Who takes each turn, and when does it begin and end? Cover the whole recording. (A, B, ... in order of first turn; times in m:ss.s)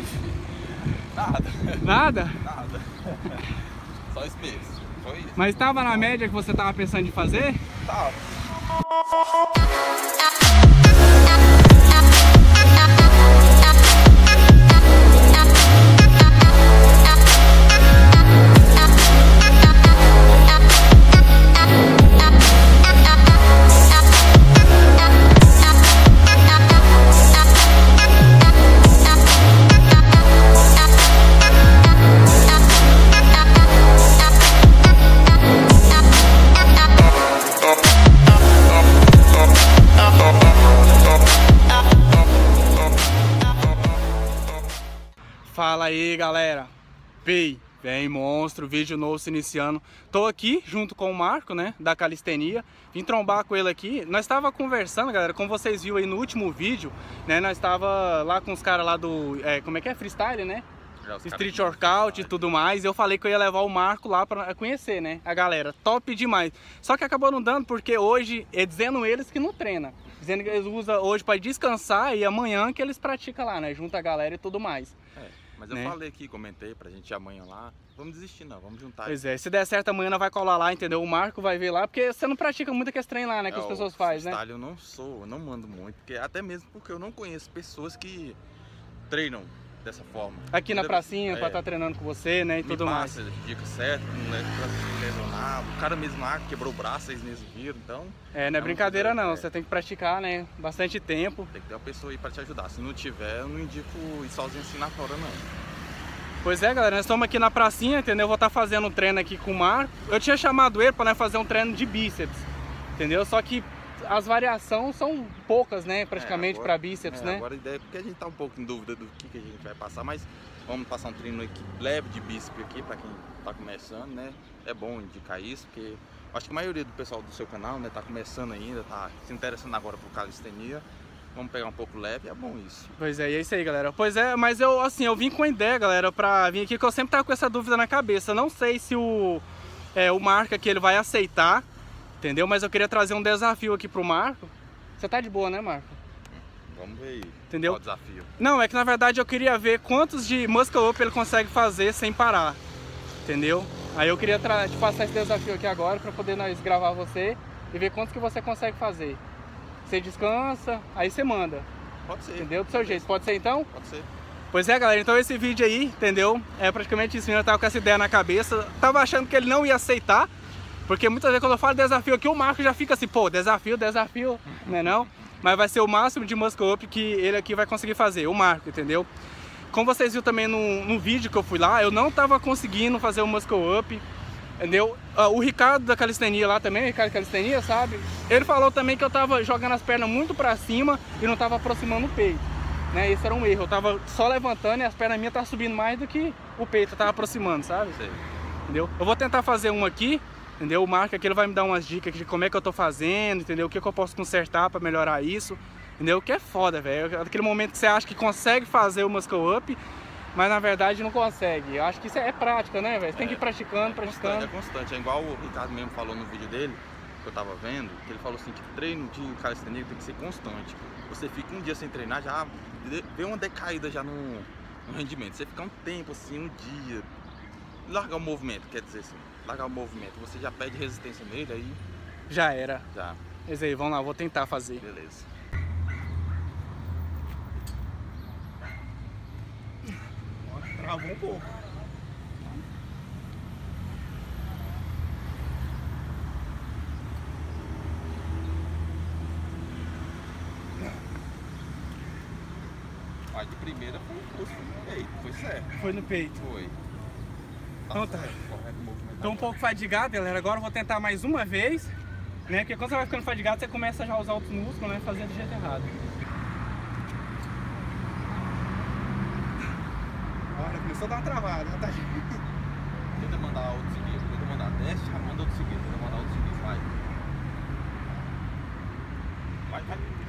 0:01.1-0:06.2 A
0:01.8-0:02.4 B
0:05.4-0:07.6 B
0:07.8-0:08.3 A
0:45.5-0:46.7 B
0:47.2-1:00.6 B
1:01.0-1:02.6 A
1:01.2-1:15.0 B
1:15.1-1:19.2 A
1:15.7-1:16.0 B
1:19.1-1:24.4 B
1:23.5-1:28.4 A
1:29.1-1:31.7 A
1:30.5-1:33.2 B
1:32.6-1:39.5 A
1:38.3-1:41.5 B
1:41.5-1:45.5 A
1:46.4-1:57.4 B
1:56.1-2:12.9 A
2:12.9-2:19.4 B
2:20.0-2:21.6 B
2:22.2-2:26.0 B
2:26.3-2:28.3 A
2:27.5-2:27.8 B
2:28.4-2:32.6 B
2:33.2-2:39.2 B
2:39.8-2:41.7 B
2:42.1-2:44.1 A
2:42.4-2:43.7 B
2:44.5-2:50.3 B
2:50.9-2:59.1 B
2:59.7-3:04.0 B
3:04.6-3:18.0 B
3:17.9-3:18.2 A
3:18.7-3:29.8 B
3:30.4-3:34.5 B
3:33.1-3:47.1 A
3:47.8-3:51.8 A
3:52.3-3:52.9 B
3:52.9-3:53.2 A
3:53.5-3:54.8 B
3:54.8-3:55.3 A
4:00.5-4:01.6 B
4:13.3-4:16.8 A
4:15.8-4:16.4 B
4:17.9-4:19.6 A
4:17.9-4:18.4 B
4:19.2-4:21.9 B
4:22.5-4:26.0 B
4:30.5-4:32.4 B
4:33.2-4:37.0 A
4:39.7-4:40.1 A